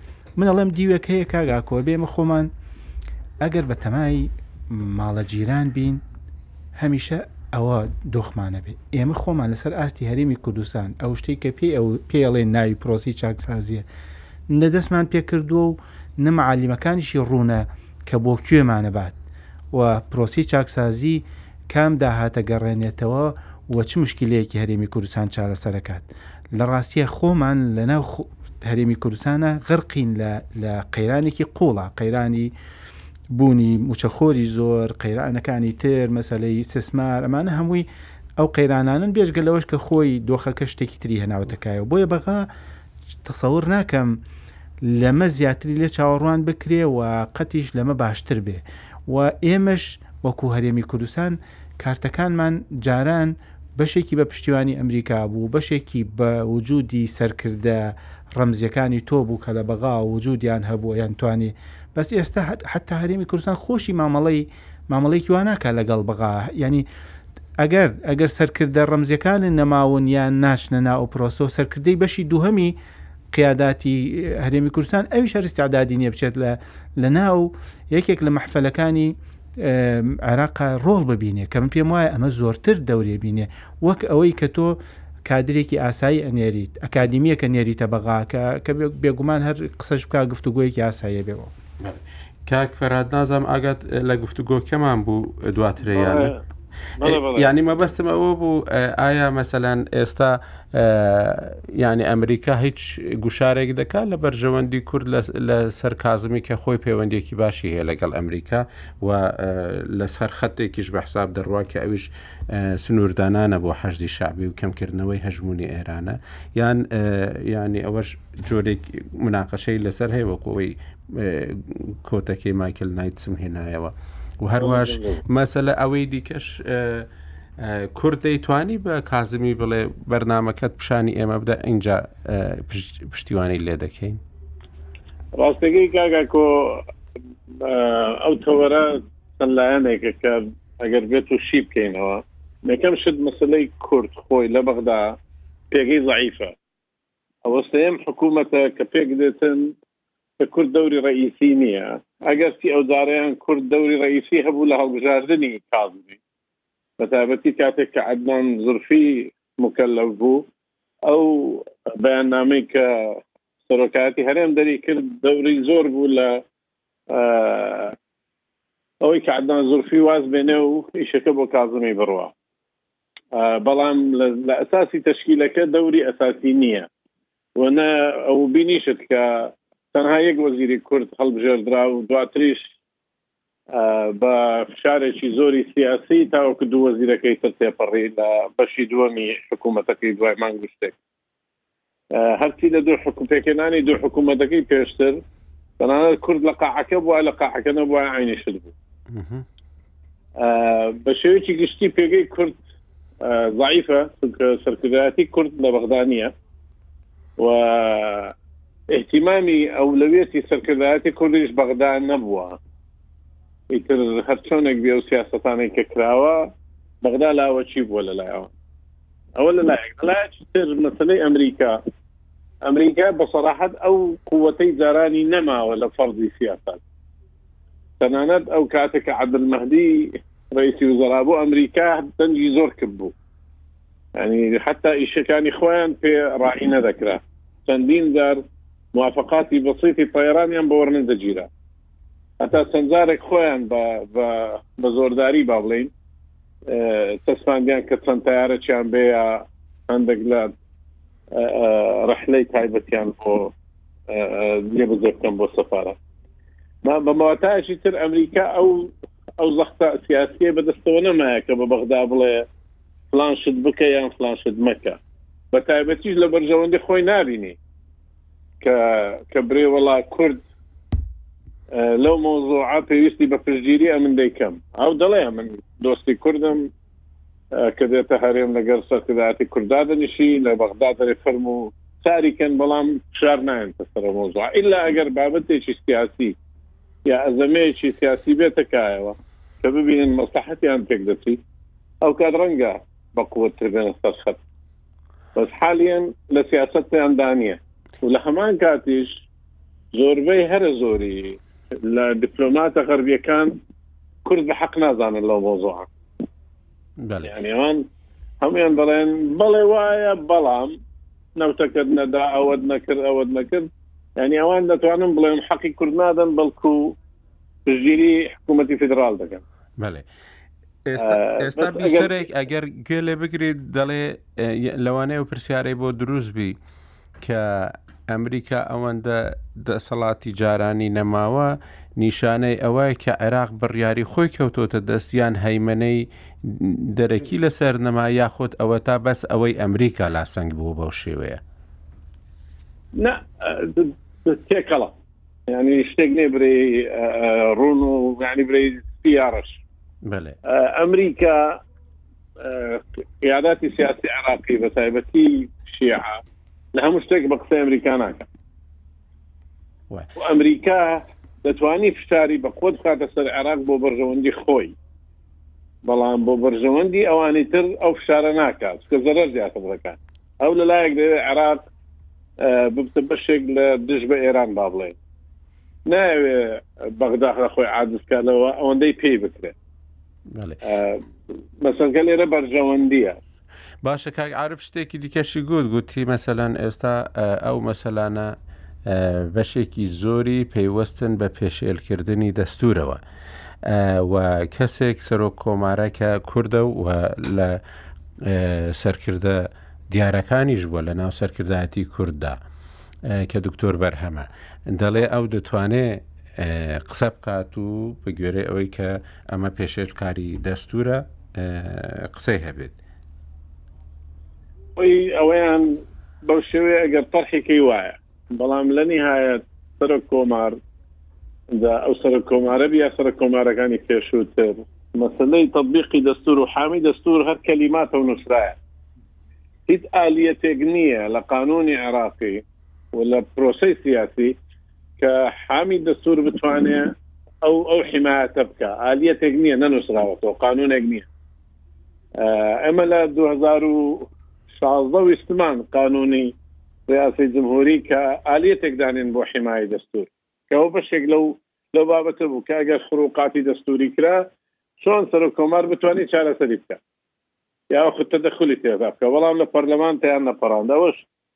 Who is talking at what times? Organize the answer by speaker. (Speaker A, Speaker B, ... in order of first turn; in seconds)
Speaker A: 0.3-2.5, 3.4-6.0, 6.7-13.8, 14.5-19.1, 19.7-32.5, 33.3-37.9, 38.4-42.5, 43.2-44.2, 44.8-66.8, 67.6-72.8, 73.3-91.5
Speaker B: 91.8-96.3, 97.0-127.1, 127.6-134.2, 199.1-199.4, 307.0-307.3, 319.8-320.1, 320.8-326.6, 327.2-341.4, 350.0-350.4, 380.3-380.6, 383.8-388.3, 388.9-393.0, 393.6-397.6, 398.2-402.4, 403.0-412.8
Speaker C: 95.8-96.4, 97.0-97.5, 124.5-125.2, 135.3-136.8, 137.6-145.2, 145.7-146.5, 147.4-149.7, 150.4-156.2, 157.0-160.4, 161.1-166.4, 167.1-167.9, 169.0-172.3, 173.3-176.9, 177.6-182.7, 183.7-190.9, 192.1-195.2, 195.8-198.7, 200.4-202.6, 203.2-206.3, 207.4-208.3, 208.9-212.6, 213.7-216.5, 217.0-218.5, 219.4-221.8, 222.6-226.8, 228.0-233.1, 234.2-238.4, 238.9-241.5, 242.4-245.9, 246.7-250.5, 251.3-253.5, 254.1-255.9, 256.8-262.4, 263.1-265.0, 265.5-267.6, 268.6-270.4, 271.7-276.7, 277.5-286.3, 287.0-291.4, 292.0-294.4, 295.3-299.1, 299.9-303.5, 304.2-305.9, 307.2-307.8, 308.4-310.7, 311.4-316.9, 317.6-319.4, 321.0-322.1, 342.9-344.9, 345.5-349.6, 350.4-351.6, 352.4-356.2, 356.7-358.2, 360.2-364.7, 365.8-371.6, 372.4-374.9, 375.9-379.5, 380.6-381.0, 381.6-383.2, 414.8-420.6, 421.5-428.6, 429.7-432.4, 432.9-434.3, 435.0-436.9, 437.4-441.1, 442.2-444.1, 444.6-446.3, 446.9-454.3, 454.8-456.8, 457.7-461.0